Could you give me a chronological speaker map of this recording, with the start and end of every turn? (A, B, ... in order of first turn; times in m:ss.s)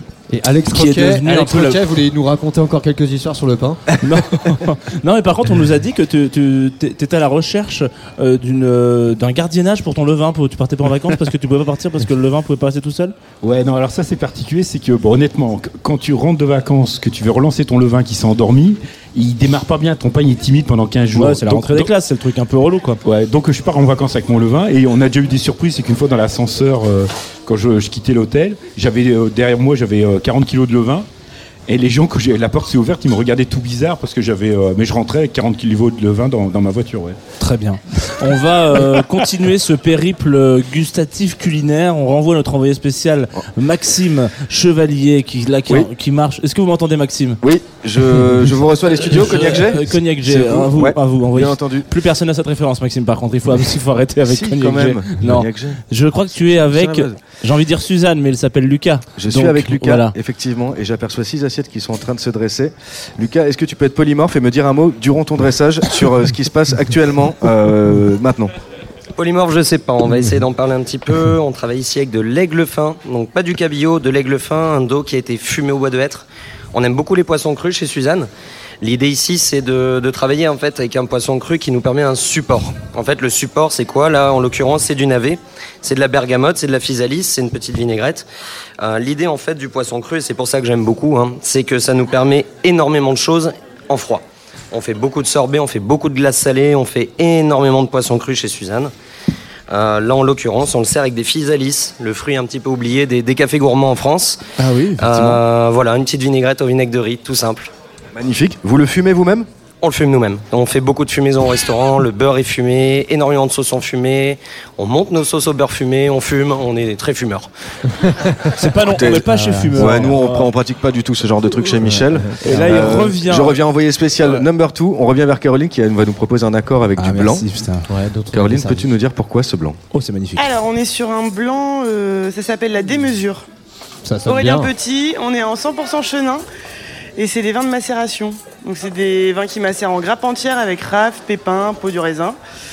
0:00.3-0:03.8 A
0:00.7-0:01.8 B
0:04.0-0:13.1 B
0:13.4-0:21.9 C
0:21.1-0:23.0 B
0:23.0-0:31.1 C
0:31.7-0:37.2 C
0:37.4-0:47.4 B
0:47.4-0:51.9 D
0:49.1-1:00.1 B
0:54.2-0:55.8 D
0:56.6-0:57.2 D
0:59.2-1:08.5 D
1:09.2-1:18.3 E
1:18.8-1:28.3 E
1:28.8-1:38.9 E
1:39.7-1:44.4 E
1:44.6-1:45.4 D
1:45.0-1:47.7 E
1:48.1-1:49.5 D
1:49.8-1:57.5 E
1:58.6-2:00.5 B
1:58.8-2:07.5 D
2:01.8-2:02.8 A
2:02.4-2:03.6 B
2:07.0-2:07.9 B
2:07.9-2:08.9 A
2:08.3-2:09.8 D
2:09.9-2:10.5 B
2:10.4-2:13.4 F
2:14.0-2:14.7 A
2:14.3-2:16.4 F
2:17.2-2:22.4 F